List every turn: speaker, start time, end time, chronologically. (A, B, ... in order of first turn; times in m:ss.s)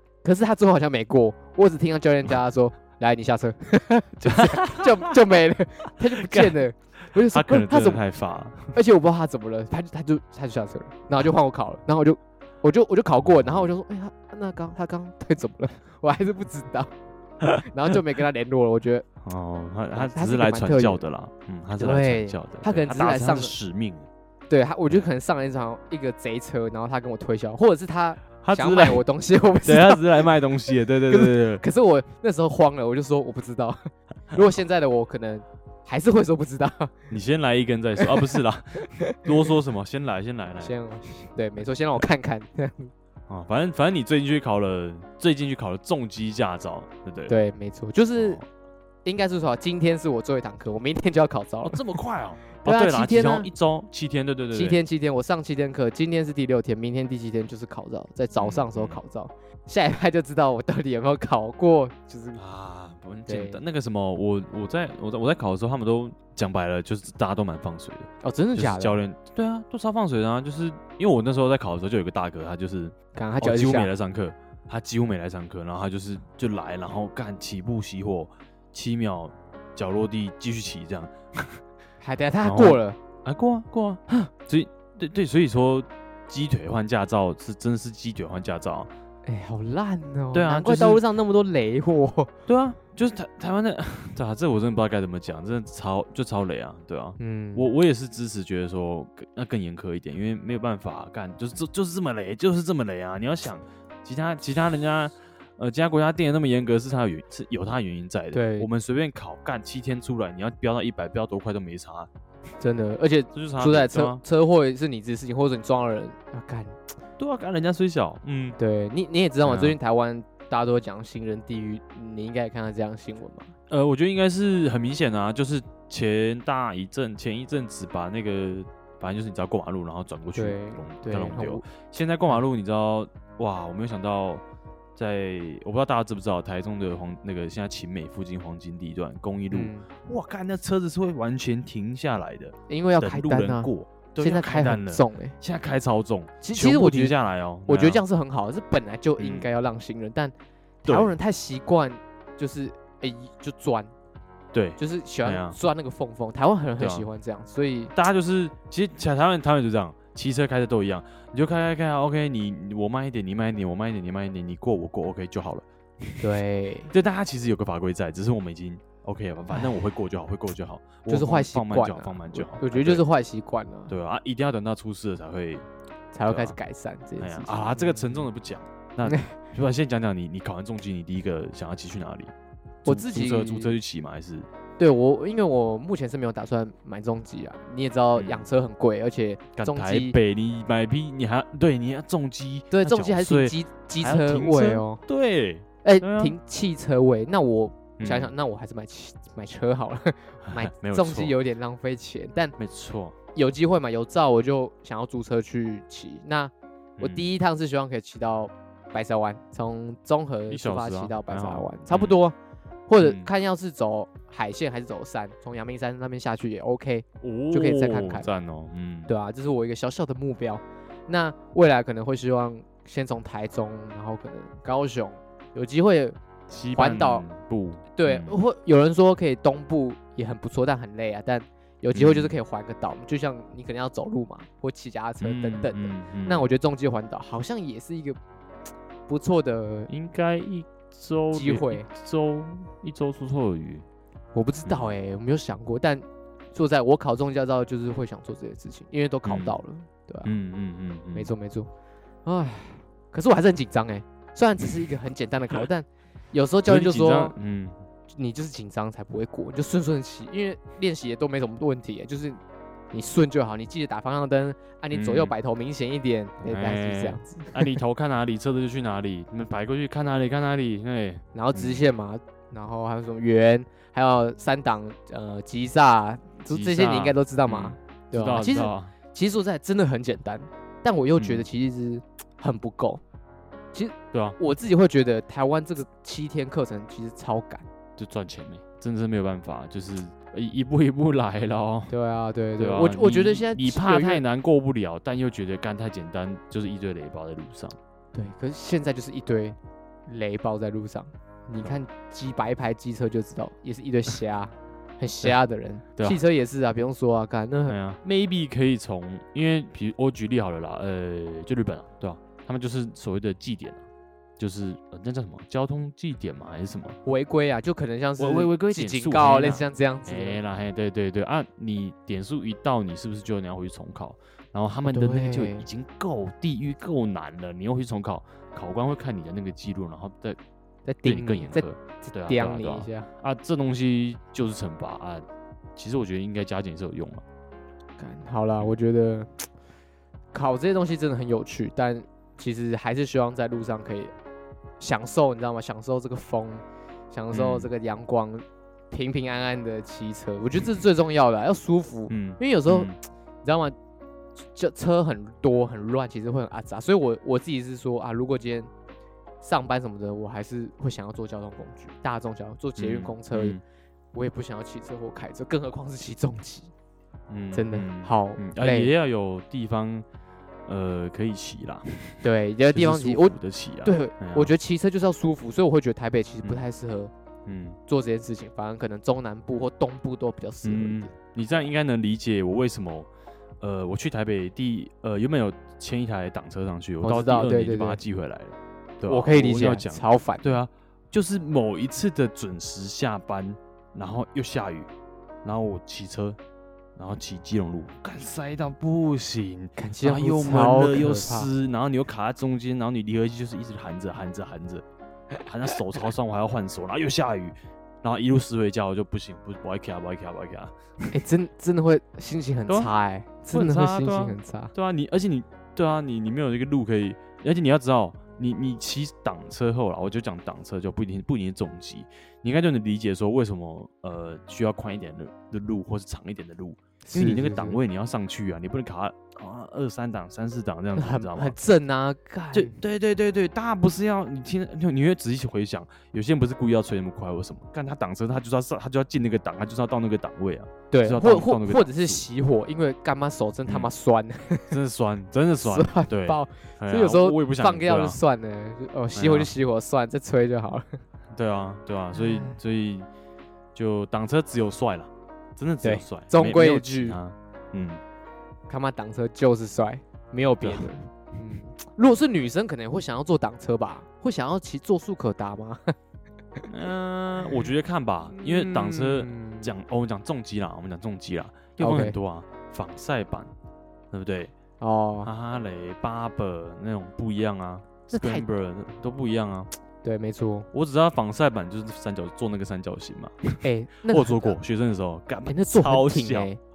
0:00.2-0:08.0 A
0:04.2-0:05.2 B
0:06.0-0:06.6 B
0:07.1-0:08.7 B
0:08.7-0:16.9 A
0:17.5-0:19.1 A
0:19.2-0:24.1 B
0:20.0-0:21.0 A
0:21.8-0:23.6 A
0:24.5-0:30.3 A
0:28.4-0:29.0 B
0:29.6-0:31.6 B
0:31.1-0:36.9 A
0:37.1-0:40.8 B
0:38.0-0:38.4 A
0:39.0-0:39.5 A
0:40.6-0:42.9 A
0:43.3-0:47.4 B
0:47.3-0:48.4 A
0:48.2-0:48.4 B
0:49.0-0:51.8 A
0:51.6-0:54.8 B
0:52.6-0:53.5 A
0:54.5-1:02.4 A
0:58.4-0:59.0 B
1:02.4-1:21.6 B
1:03.3-1:03.6 A
1:08.2-1:09.0 A
1:13.2-1:13.9 A
1:22.0-1:23.0 A
1:22.4-1:28.9 B
1:29.3-1:32.3 A
1:30.3-1:31.0 B
1:32.5-1:52.1 B
1:37.2-1:37.7 A
1:48.3-1:48.7 A
1:52.6-1:56.9 A
1:53.3-1:54.2 B
1:57.2-1:58.6 B
1:58.6-2:03.5 A
1:59.4-1:59.8 B
2:03.7-2:14.4 B
2:10.3-2:11.7 A
2:15.0-2:28.0 B
2:19.5-2:19.9 A
2:22.7-2:25.4 A
2:26.4-2:33.9 A
2:29.2-2:29.5 B
2:30.9-2:31.1 B
2:34.5-2:35.6 B
2:34.8-2:37.9 A
2:36.8-2:37.1 B
2:37.9-2:46.4 B
2:46.2-2:46.9 A
2:46.9-2:53.0 B
2:51.1-2:53.9 A
2:53.9-2:55.7 B
2:56.1-2:58.3 A
2:56.2-2:56.6 B
2:57.2-3:02.3 B
2:59.0-2:59.4 A
3:02.8-3:03.8 A
3:02.8-3:04.5 B
3:04.8-3:10.2 A
3:08.2-3:08.5 B
3:09.6-3:16.4 B
3:12.7-3:15.0 A
3:15.8-3:22.6 A
3:18.0-3:18.3 B
3:20.5-3:21.4 B
3:22.6-3:23.2 B
3:23.4-3:32.4 A
3:27.0-3:27.3 B
3:30.5-3:32.2 B
3:32.9-3:38.3 A
3:33.0-3:33.3 B
3:37.2-3:39.1 B
3:39.1-3:46.2 A
3:46.5-3:48.4 B
3:46.8-3:47.2 A
3:48.0-3:58.2 A
3:51.9-3:52.4 B
3:55.2-3:56.5 B
3:59.1-3:59.9 A
3:59.9-4:03.9 B
4:01.3-4:01.9 A
4:04.4-4:10.3 A
4:04.6-4:04.9 B
4:09.2-4:09.6 B
4:10.2-4:11.3 B
4:11.1-4:11.7 A
4:12.3-4:17.4 A
4:16.7-4:17.8 B
4:18.1-4:22.4 A
4:22.9-4:27.7 A
4:24.9-4:25.3 B
4:26.4-4:31.8 B
4:31.4-4:43.0 A
4:36.5-4:38.9 B
4:41.2-4:41.5 B
4:43.7-4:47.7 A
4:44.1-4:44.4 B
4:48.0-4:51.9 B
4:51.9-4:54.2 A
4:52.6-4:57.8 B
4:58.1-5:07.8 A
5:06.0-5:06.2 B
5:07.7-5:13.8 B
5:14.4-5:17.0 B
5:17.0-5:20.4 A
5:18.2-5:30.4 B
5:24.9-5:25.7 A
5:30.9-5:33.1 A
5:31.0-5:37.2 B
5:38.0-5:39.5 A
5:40.3-5:44.1 A
5:44.8-5:52.9 A
5:47.3-5:47.7 B
5:52.1-5:53.0 B
5:53.4-5:53.8 A
5:54.6-5:58.7 A
5:59.4-6:03.6 A
6:02.8-6:03.6 B
6:04.1-6:06.7 A
6:07.3-6:10.1 B
6:07.5-6:08.9 A
6:10.7-6:14.5 B
6:12.2-6:17.1 A
6:17.5-6:17.8 B
6:17.9-6:21.1 A
6:20.6-6:23.1 B
6:23.6-6:34.9 B
6:27.0-6:28.0 A
6:29.1-6:30.6 A
6:35.4-6:36.4 B
6:37.0-6:44.8 B
6:39.8-6:41.5 A
6:45.5-6:51.2 B
6:51.1-6:54.7 A
6:53.5-7:11.6 B
7:07.0-7:07.8 A
7:11.0-7:12.8 A
7:12.5-7:22.2 B
7:20.9-7:24.8 A
7:24.7-7:28.2 B
7:25.6-7:31.0 A
7:29.2-7:29.5 B
7:31.3-7:33.1 B
7:32.1-7:32.6 A
7:33.8-7:38.0 B
7:35.8-7:37.2 A
7:38.7-7:45.9 A
7:40.6-7:40.9 B
7:46.7-7:53.5 B
7:48.3-7:49.7 A
7:51.8-7:52.2 A
7:54.1-7:54.5 B
7:54.8-7:55.3 A
7:55.2-7:59.7 B
7:58.1-7:58.5 A
8:00.0-8:00.7 A
8:00.7-8:06.5 B
8:03.6-8:04.6 A
8:05.5-8:06.6 A